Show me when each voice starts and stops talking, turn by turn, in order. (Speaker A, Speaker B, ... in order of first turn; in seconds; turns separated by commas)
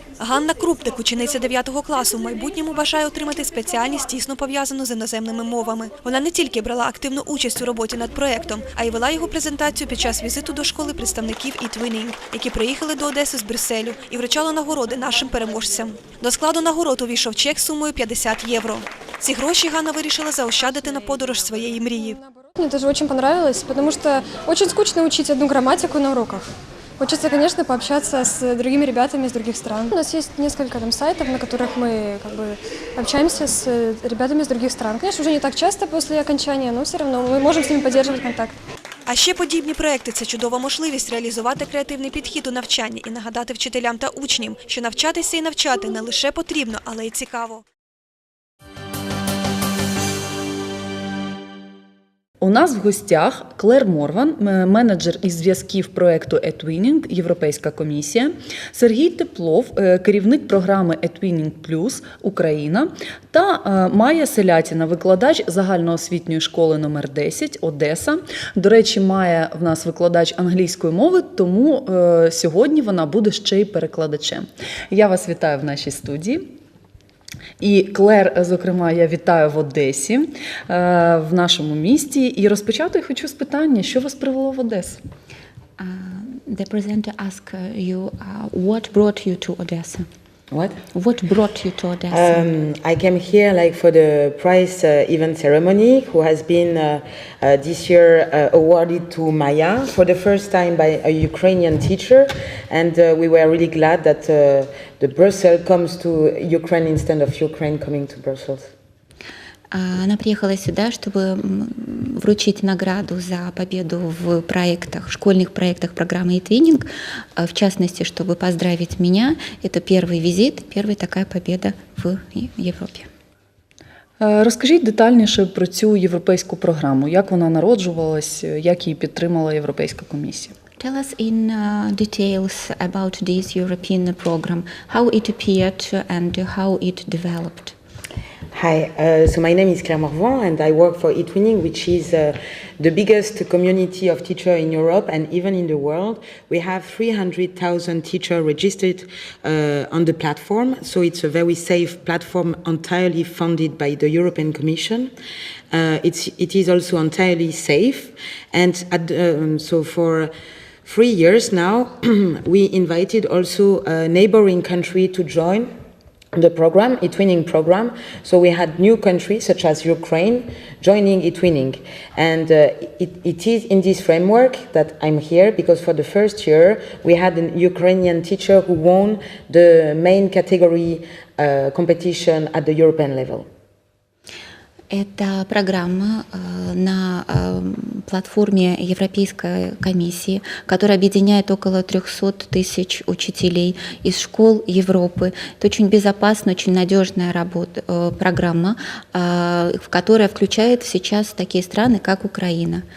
Speaker A: 0.2-22.2, Speaker B: 22.4-38.5, Speaker A: 39.0-47.6, Speaker C: 52.4-76.5, Speaker C: 77.6-85.0, Speaker D: 85.8-90.1, Speaker E: 90.5-90.8, Speaker D: 90.9-92.5, Speaker E: 92.1-108.7, Speaker D: 109.7-123.1, Speaker C: 124.2-130.5, Speaker D: 130.8-137.7, Speaker E: 138.5-155.1, Speaker E: 155.7-160.3, Speaker E: 160.8-165.7, Speaker E: 166.3-183.5, Speaker D: 184.9-202.8